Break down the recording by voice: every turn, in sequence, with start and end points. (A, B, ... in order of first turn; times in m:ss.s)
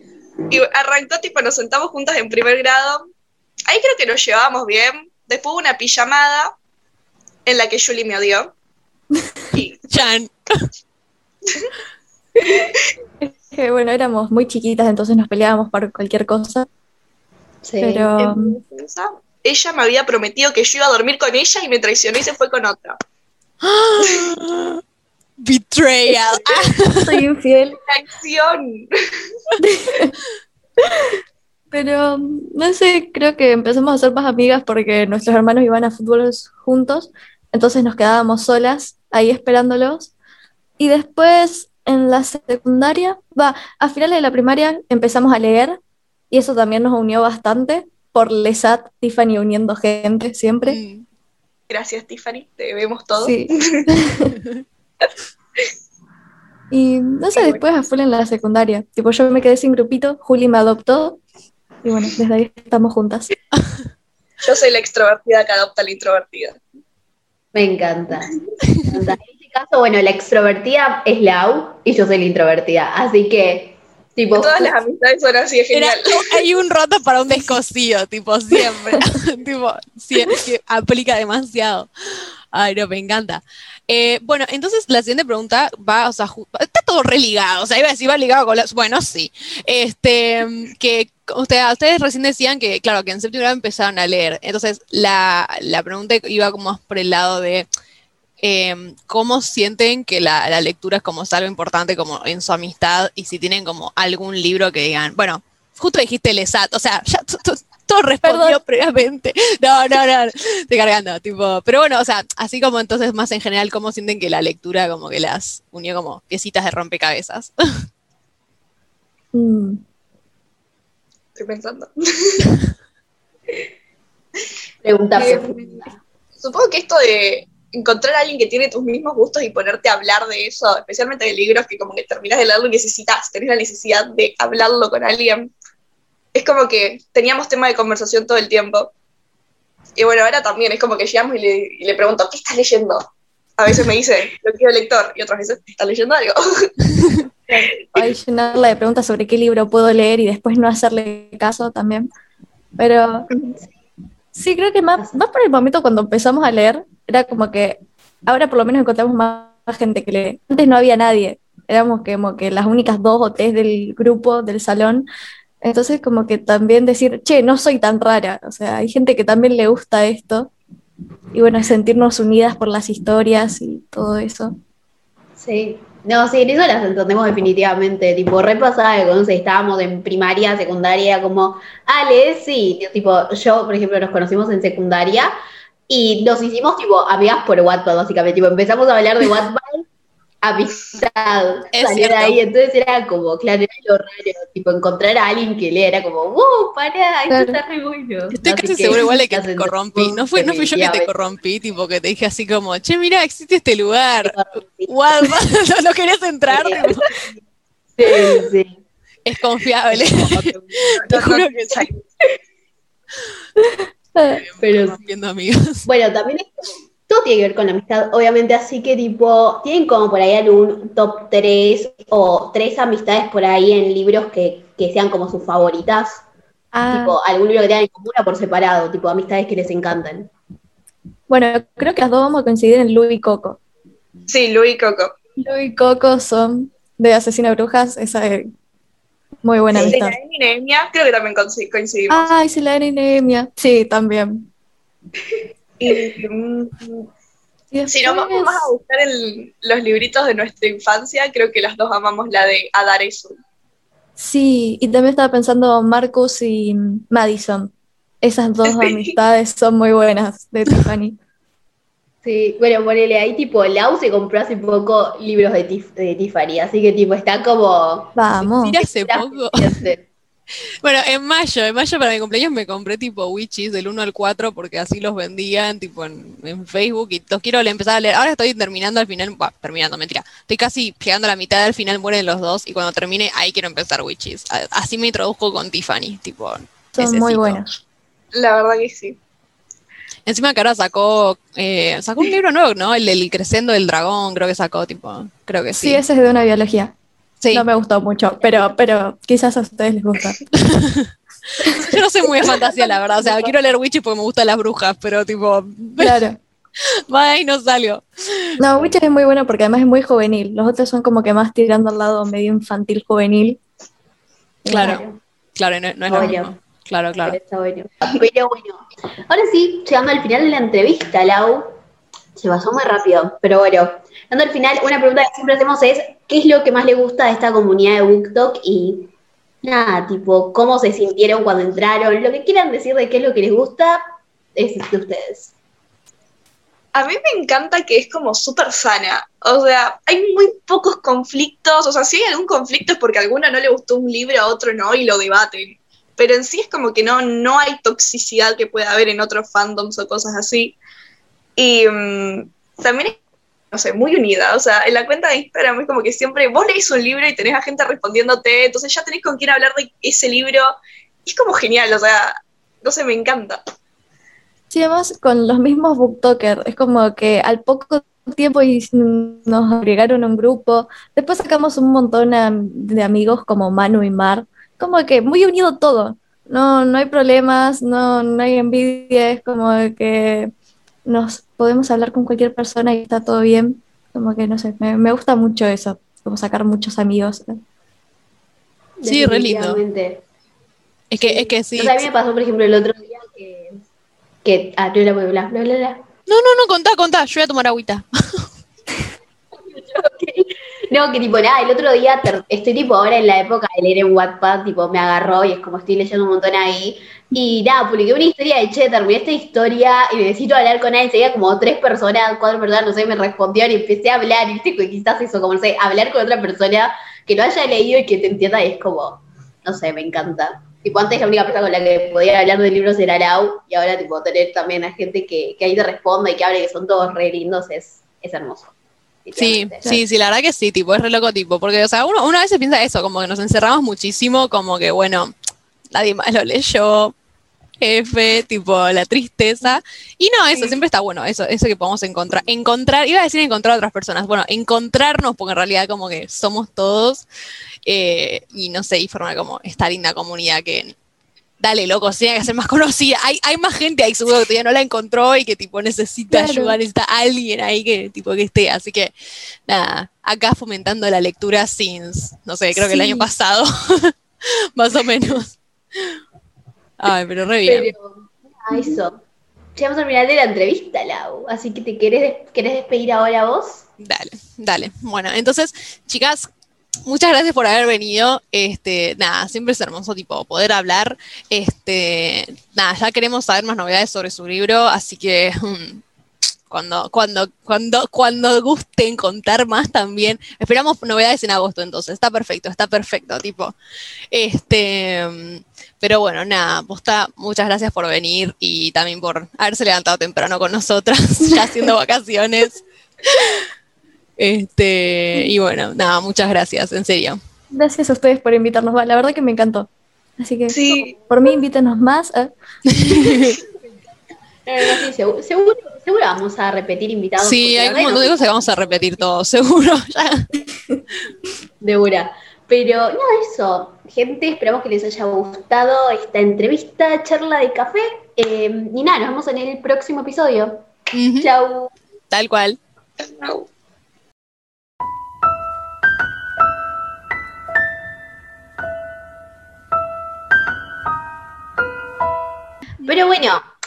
0:00.5-0:03.1 A
0:03.7-0:06.5 A
0:07.4-0:08.5 A
0:09.5-0:10.0 A
0:09.9-0:10.4 B
0:13.2-0:16.7 C
0:17.6-0:18.1 D
0:17.8-0:18.6 C
0:18.2-0:23.0 A
0:23.6-0:24.8 B
0:25.4-0:27.2 B
0:27.0-0:27.8 C
0:27.9-0:29.3 A
0:29.6-0:30.1 C
0:31.7-0:40.1 C
0:40.8-0:45.8 C
0:46.3-0:50.8 C
0:50.7-0:51.1 B
0:51.7-0:53.9 A
0:53.2-0:54.4 C
0:54.4-0:54.6 B
0:56.7-1:01.2 C
0:57.3-0:57.7 A
1:01.8-1:03.3 C
1:04.4-1:06.6 A
1:07.6-1:08.3 D
1:08.9-1:14.7 D
1:14.4-1:16.4 A
1:15.7-1:37.7 B
1:38.4-1:57.5 B
1:48.3-1:48.6 C
1:59.3-1:59.8 C
2:01.4-2:02.5 A
2:04.8-2:05.9 D
2:06.4-2:15.5 A
2:16.4-2:18.9 A
2:20.0-2:23.1 A
2:23.6-2:26.7 A
2:27.5-2:32.1 C
2:27.7-2:28.0 A
2:32.8-2:33.3 C
2:34.3-2:45.0 C
2:45.6-2:50.5 C
2:51.3-2:54.6 C
2:55.4-3:05.3 D
3:05.9-3:09.8 D
3:10.4-3:21.1 D
3:11.7-3:12.4 B
3:17.3-3:17.6 C
3:18.3-3:27.0 B
3:24.2-3:25.3 D
3:26.5-3:27.2 D
3:28.0-3:28.8 D
3:29.2-3:31.9 B
3:29.9-3:31.1 D
3:31.1-3:31.8 A
3:34.2-3:34.4 C
3:34.5-3:35.9 B
3:34.6-3:35.0 D
3:35.9-3:46.2 D
3:46.7-3:47.2 C
3:46.9-3:50.3 D
3:51.3-3:53.6 C
3:54.3-3:55.1 A
3:55.4-3:58.5 C
3:59.4-4:00.2 C
3:59.7-4:02.3 A
4:02.1-4:04.5 C
4:05.8-4:07.1 A
4:07.7-4:08.7 C
4:07.9-4:13.4 A
4:14.2-4:21.2 C
4:18.7-4:19.1 A
4:22.2-4:30.1 D
4:28.1-4:28.8 C
4:28.7-4:29.8 B
4:30.8-4:47.6 B
4:47.0-4:47.7 C
4:48.3-4:49.2 A
4:50.3-4:56.0 B
4:55.7-4:56.9 C
4:57.4-4:57.7 B
4:57.5-5:00.4 C
5:00.6-5:01.1 B
5:01.6-5:01.9 C
5:01.8-5:06.2 B
5:06.0-5:06.4 C
5:07.1-5:08.6 B
5:08.6-5:13.6 C
5:14.7-5:15.2 D
5:14.7-5:15.0 C
5:14.7-5:15.0 B
5:15.6-5:17.4 B
5:16.1-5:16.5 D
5:17.1-5:21.7 D
5:22.4-5:29.1 D
5:29.6-5:34.0 D
5:34.6-5:35.5 D
5:37.0-5:50.8 A
5:51.6-5:53.2 A
5:53.7-6:03.6 A
6:04.7-6:20.5 C
6:21.1-6:27.6 C
6:29.0-6:30.2 D
6:29.0-6:29.8 B
6:31.1-6:32.1 B
6:31.2-6:33.8 D
6:34.4-6:36.0 D
6:36.3-6:38.5 B
6:39.6-7:08.7 D
7:09.3-7:09.9 D
7:09.4-7:15.3 B
7:15.9-7:17.1 B
7:17.8-7:27.2 B
7:27.8-7:31.0 B
7:31.6-7:39.1 B
7:36.3-7:36.8 C
7:39.7-7:46.2 B
7:42.7-7:43.3 C
7:47.0-7:47.9 B
7:47.7-7:49.2 D
7:49.8-7:53.8 D
7:54.0-7:56.5 B
7:57.0-8:06.0 B
8:06.7-8:13.7 B
8:14.3-8:23.6 B
8:24.4-8:27.4 B
8:27.7-8:32.5 C
8:30.7-8:31.2 A
8:32.9-8:33.6 B
8:34.6-8:39.3 D
8:37.4-8:40.5 B
8:41.8-8:52.0 D
8:51.1-8:51.5 B
8:52.3-8:52.8 B
8:53.2-8:53.7 A
9:03.0-9:03.6 D